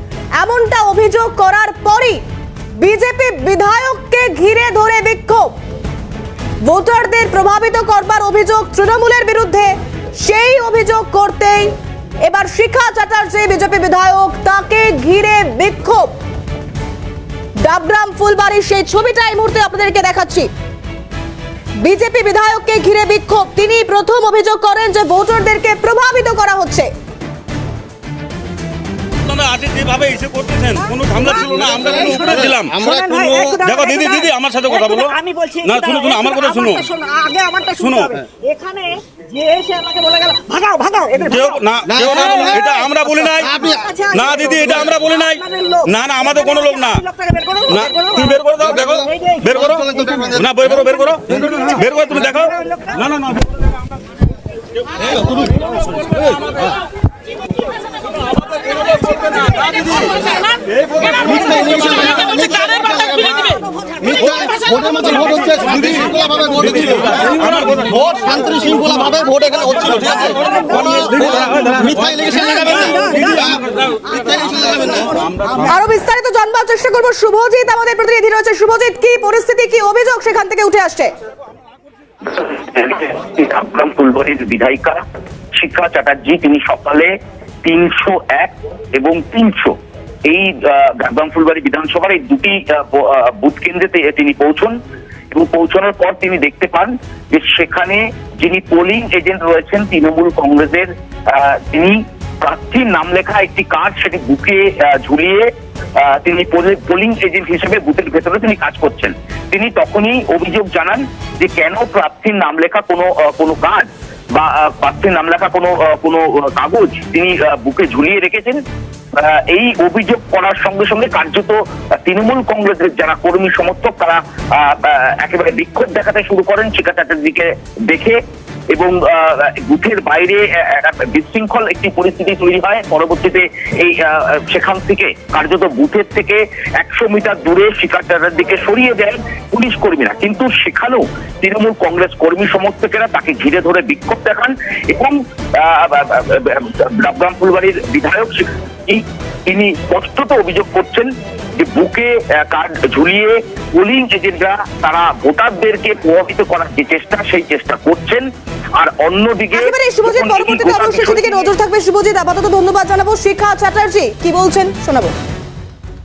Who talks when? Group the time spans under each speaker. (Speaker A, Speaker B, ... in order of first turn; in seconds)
Speaker A: 0.4-2.2, 2.8-5.5, 6.6-16.1, 17.6-20.5, 21.8-26.9, 75.7-81.1, 159.5-165.1
Speaker B: 29.2-32.8, 33.6-35.1, 35.6-36.8, 37.8-38.1, 41.3-47.0, 47.7-53.4, 66.6-68.2, 71.2-72.2
Speaker C: 30.8-53.1, 59.1-60.3, 61.0-66.5, 68.4-71.5, 72.2-73.6, 74.1-75.7
Speaker D: 32.8-33.5, 61.4-63.0, 64.2-67.3, 68.0-70.3, 71.9-73.0, 74.6-74.9
Speaker E: 82.3-85.0, 85.6-87.1, 87.6-89.7, 90.3-94.8, 95.3-105.5, 106.0-118.6, 119.2-128.2, 128.7-158.2, 158.8-161.4